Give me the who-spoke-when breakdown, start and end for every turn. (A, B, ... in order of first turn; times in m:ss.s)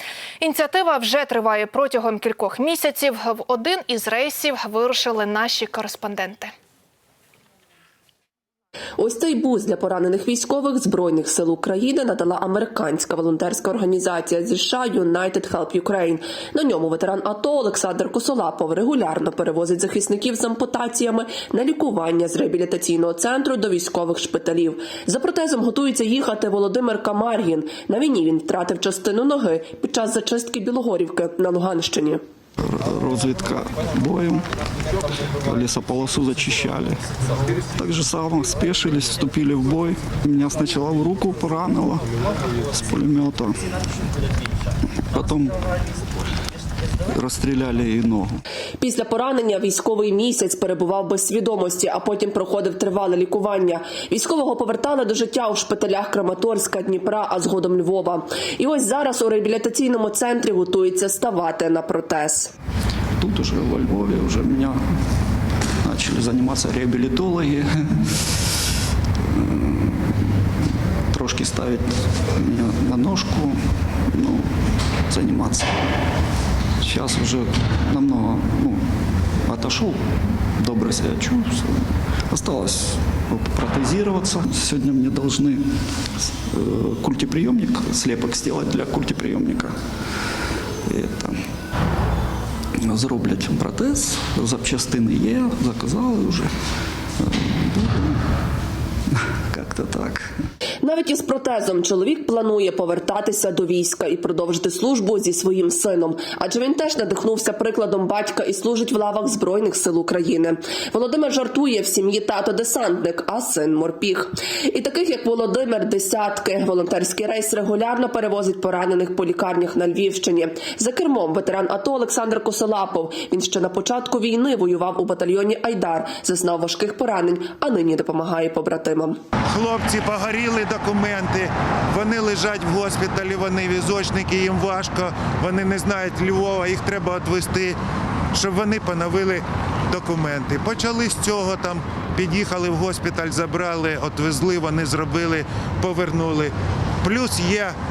0:00.4-0:06.5 A
0:09.0-0:32.2 B
0:32.6-0:34.5 C
0:35.4-0:37.0 C
0:37.8-0:42.0 C
0:42.8-0:43.6 C
0:45.0-0:45.6 C
0:47.1-0:48.4 C
0:48.8-1:02.5 B
1:03.2-1:04.8 C
1:05.8-1:07.9 C
1:09.2-1:10.3 C
1:11.1-1:14.5 C
1:15.1-1:15.7 C
1:16.8-1:18.8 C
1:19.4-1:20.0 C
1:20.6-1:25.6 C
1:26.2-1:29.7 C
1:30.9-1:31.4 C
1:32.8-1:36.5 C
1:37.2-1:38.2 C
1:39.2-1:40.3 C
1:40.8-2:09.2 B
2:09.5-2:17.8 D
2:18.3-2:27.8 D